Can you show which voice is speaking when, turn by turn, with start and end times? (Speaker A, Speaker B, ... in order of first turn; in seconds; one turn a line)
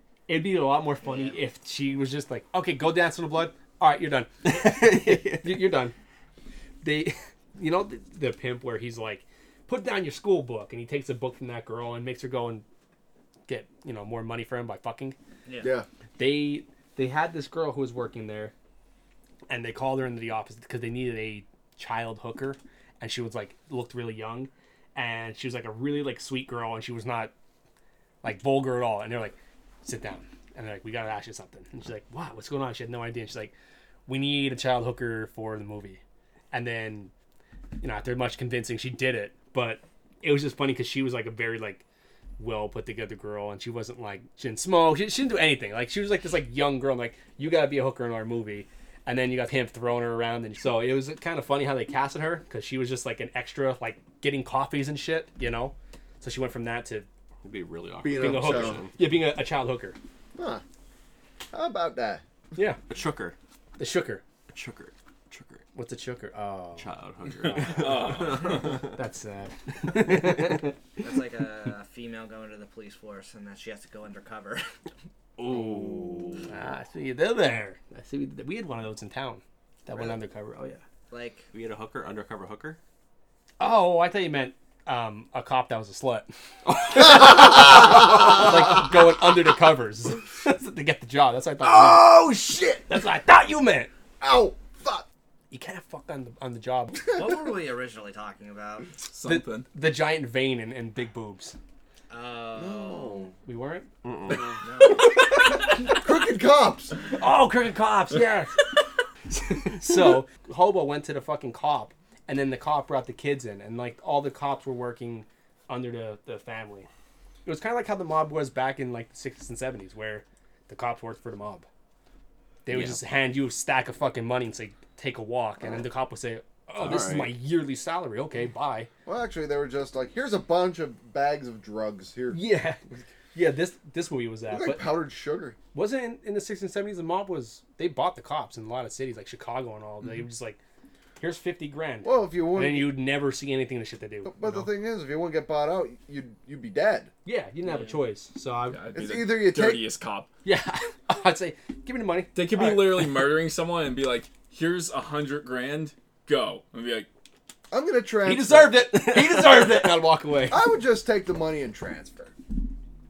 Speaker A: 0.3-5.9
Speaker B: 1.0-1.4
Speaker C: 4.4-5.6
Speaker A: 6.8-12.6
Speaker A: 13.5-15.2
Speaker D: 15.6-15.9
Speaker A: 16.2-18.5
Speaker A: 19.5-27.3
Speaker A: 28.2-33.5
Speaker A: 34.1-36.0
Speaker A: 36.5-37.1
Speaker A: 37.8-41.8
Speaker A: 42.4-57.1
Speaker C: 57.4-59.0
Speaker D: 58.0-58.9
Speaker A: 58.1-60.0
Speaker D: 60.4-60.6
Speaker D: 61.5-62.2
Speaker C: 62.9-63.4
Speaker A: 63.8-64.2
Speaker C: 64.5-65.6
Speaker A: 65.7-70.7
Speaker C: 66.8-69.0
Speaker E: 67.6-68.8
Speaker B: 71.0-74.6
Speaker C: 75.4-76.5
Speaker A: 75.5-80.8
Speaker B: 81.1-81.5
Speaker C: 81.5-82.8
Speaker A: 83.6-86.3
Speaker A: 86.8-92.2
Speaker D: 86.9-88.5
Speaker D: 91.6-93.0
Speaker A: 92.9-93.9
Speaker D: 94.2-95.0
Speaker A: 95.5-97.0
Speaker B: 97.1-98.9
Speaker E: 99.1-99.7
Speaker A: 99.2-101.5
Speaker B: 102.1-103.3
Speaker D: 102.5-103.3
Speaker A: 103.4-103.9
Speaker C: 104.0-104.6
Speaker B: 104.6-105.1
Speaker A: 104.9-106.0
Speaker D: 105.7-107.0
Speaker A: 107.2-108.6
Speaker A: 109.3-116.9
Speaker A: 117.4-121.7
Speaker A: 122.6-128.9
Speaker C: 122.7-123.0
Speaker C: 126.7-127.3
Speaker D: 129.1-132.4
Speaker A: 132.3-132.8
Speaker A: 133.3-134.9
Speaker D: 134.5-135.6
Speaker A: 135.7-140.6
Speaker A: 141.2-144.7
Speaker D: 142.0-143.0
Speaker D: 144.2-147.1
Speaker A: 147.2-148.8
Speaker B: 147.6-148.0
Speaker E: 148.7-150.3
Speaker D: 148.9-149.9
Speaker A: 150.4-153.3
Speaker E: 152.3-157.1
Speaker D: 157.7-159.7
Speaker A: 158.2-160.6
Speaker D: 160.5-162.3